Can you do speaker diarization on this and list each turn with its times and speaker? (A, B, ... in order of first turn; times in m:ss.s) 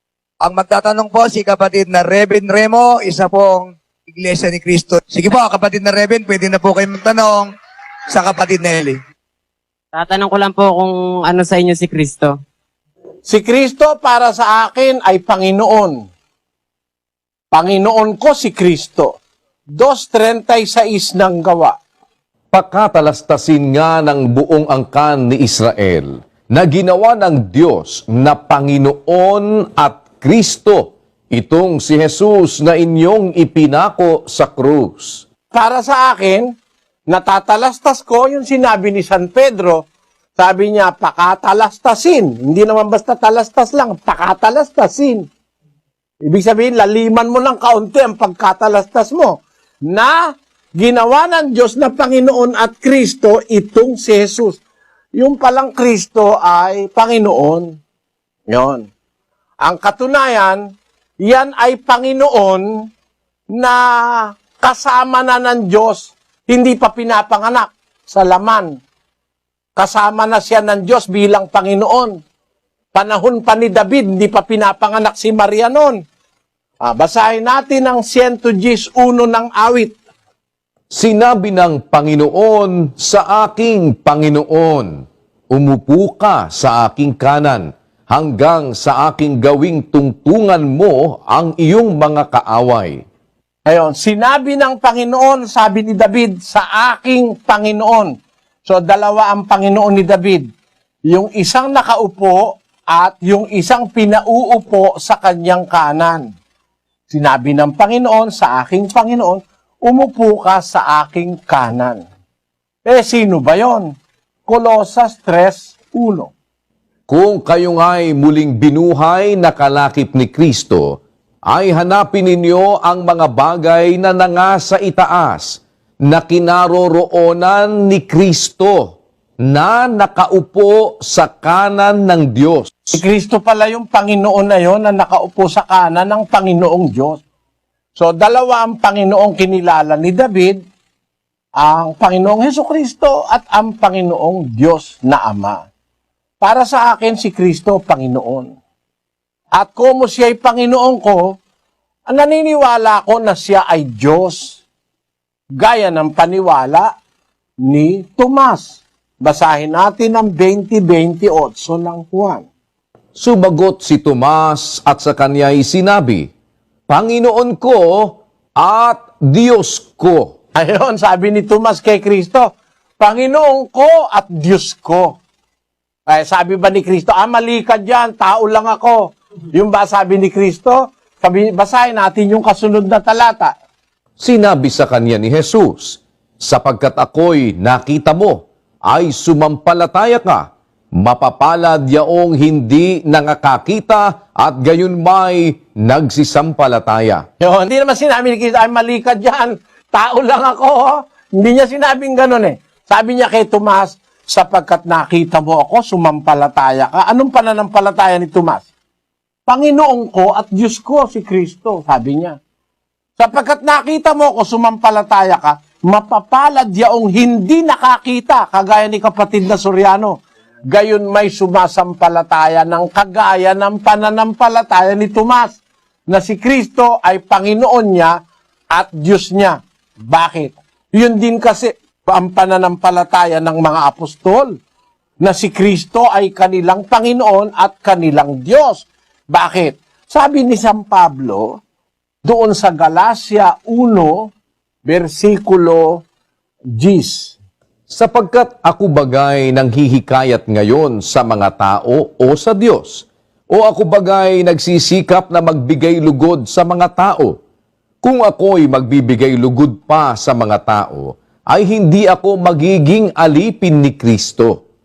0:00.4-0:07.5 A
0:08.1-0:09.0 A
0:09.9-0:12.3 B
0:13.2-0:16.0 C
0:17.5-0:19.2 C
0:19.8-0:21.8 C
0:22.5-0:35.2 D
0:35.5-0:36.5 C
0:37.1-0:39.8 C
0:40.4-0:45.2 C
0:46.2-0:50.2 C
0:50.8-0:54.6 C
0:55.2-0:57.7 C
0:58.5-0:58.9 C
0:59.6-1:00.6 C
1:01.2-1:02.7 C
1:03.5-1:08.8 C
1:09.8-1:12.2 C
1:12.9-1:16.0 C
1:16.8-1:19.9 C
1:20.9-1:24.9 D
1:25.5-1:33.0 D
1:33.7-1:38.1 C
1:38.6-1:40.4 C
1:41.1-1:46.2 C
1:47.1-1:52.0 C
1:52.8-1:53.9 C
1:54.5-1:56.3 C
1:57.1-2:01.0 D
2:01.5-2:09.0 D
2:09.5-2:13.0 D
2:12.9-2:17.2 C
2:18.0-2:20.6 C
2:21.6-2:25.6 C
2:26.4-2:28.5 C
2:29.6-2:31.3 C
2:32.1-2:34.6 C
2:35.6-2:36.9 C
2:37.7-2:42.5 C
2:43.2-2:46.3 D
2:46.9-2:50.3 D
2:50.6-2:55.2 C
2:56.1-2:59.0 C
2:59.5-3:03.5 C
3:04.2-3:10.4 D
3:11.0-3:17.2 D
3:17.4-3:28.7 C
3:29.5-3:32.4 C
3:33.2-3:40.2 C
3:40.7-3:48.1 C
3:48.7-3:54.5 C
3:55.2-4:01.6 C
4:02.2-4:04.3 C
4:04.8-4:06.0 C
4:06.8-4:07.4 C
4:07.9-4:17.3 D
4:18.0-4:24.6 D